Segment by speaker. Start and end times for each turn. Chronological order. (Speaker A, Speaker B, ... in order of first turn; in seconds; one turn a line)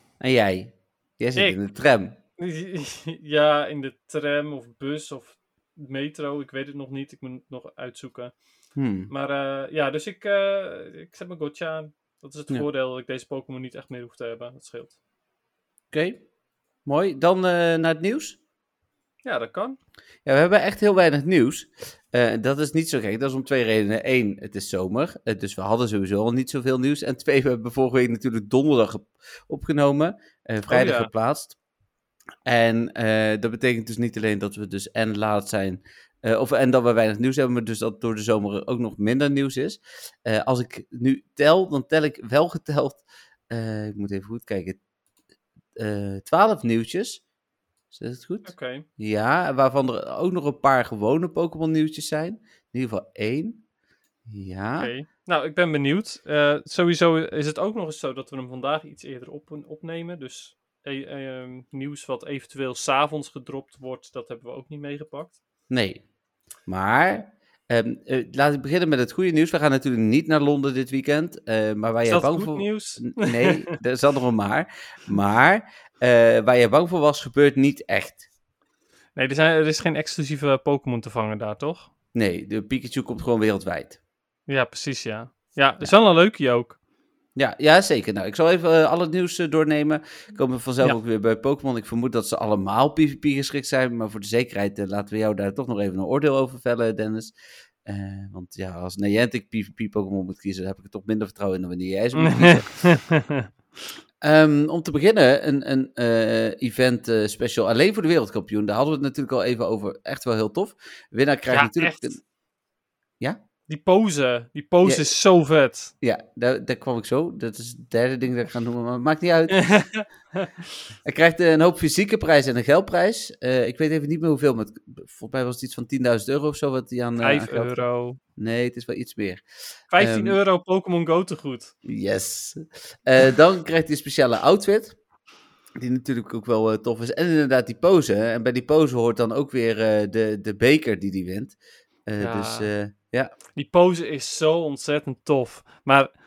Speaker A: 0.2-2.2
Speaker B: 2.4-8.3
Speaker A: 8.8-9.1
Speaker B: 9.1-15.0
Speaker A: 15.9-16.2
Speaker A: 16.8-18.4
Speaker B: 19.2-19.8
Speaker A: 20.2-31.6
Speaker B: 30.7-31.1
Speaker A: 32.4-44.8
Speaker A: 45.8-47.2
Speaker A: 47.9-53.6
Speaker B: 48.4-48.9
Speaker A: 54.2-54.9
Speaker B: 54.8-65.4
Speaker A: 65.7-66.0
Speaker A: 66.7-78.3
Speaker B: 72.0-73.7
Speaker B: 79.2-81.9
Speaker A: 82.1-84.0
Speaker B: 84.5-86.8
Speaker A: 87.3-97.3
Speaker A: 97.8-102.9
Speaker B: 102.2-103.5
Speaker A: 104.2-112.2
Speaker B: 111.5-112.2
Speaker B: 113.7-115.9
Speaker A: 114.8-115.2
Speaker A: 116.0-120.0
Speaker B: 119.5-120.5
Speaker A: 121.0-129.4
Speaker B: 127.2-128.2
Speaker B: 129.9-131.7
Speaker A: 129.9-130.4
Speaker A: 131.8-135.0
Speaker A: 135.8-143.3
Speaker B: 142.2-142.7
Speaker B: 143.6-146.1